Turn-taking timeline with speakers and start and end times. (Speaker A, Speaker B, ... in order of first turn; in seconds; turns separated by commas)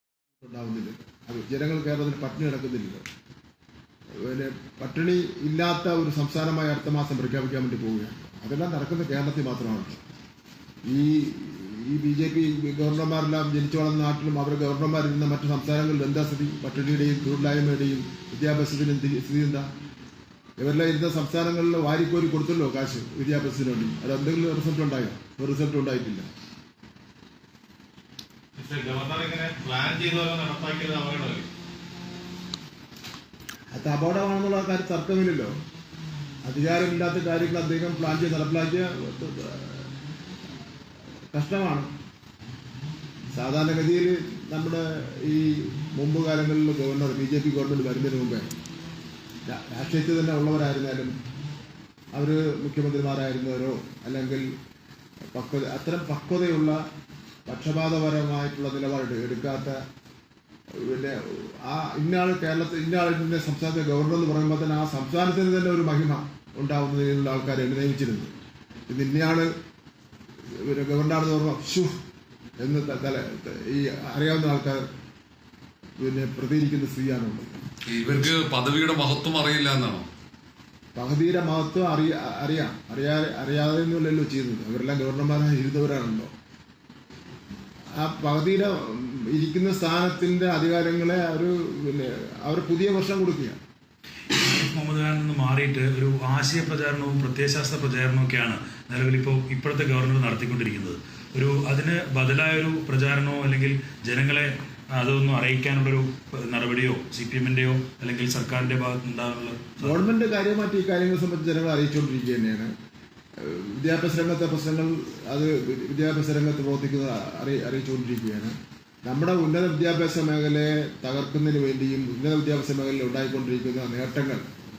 Speaker A: 0.4-3.0, Speaker A: 4.2-10.0, Speaker A: 10.8-19.6, Speaker A: 20.6-26.3, Speaker B: 28.6-31.5, Speaker A: 33.7-35.5, Speaker A: 36.4-39.9, Speaker A: 41.3-41.9, Speaker A: 43.3-48.5, Speaker A: 49.5-51.1, Speaker A: 52.1-54.5, Speaker A: 55.3-56.8, Speaker A: 57.5-59.8, Speaker A: 60.7-68.3, Speaker A: 68.9-69.5, Speaker A: 70.5-71.9, Speaker A: 72.6-74.8, Speaker A: 76.0-77.5, Speaker C: 77.9-80.1, Speaker A: 80.9-86.3, Speaker A: 87.9-93.6, Speaker D: 94.3-110.0, Speaker A: 109.8-112.7, Speaker A: 113.4-118.5, Speaker A: 119.0-124.4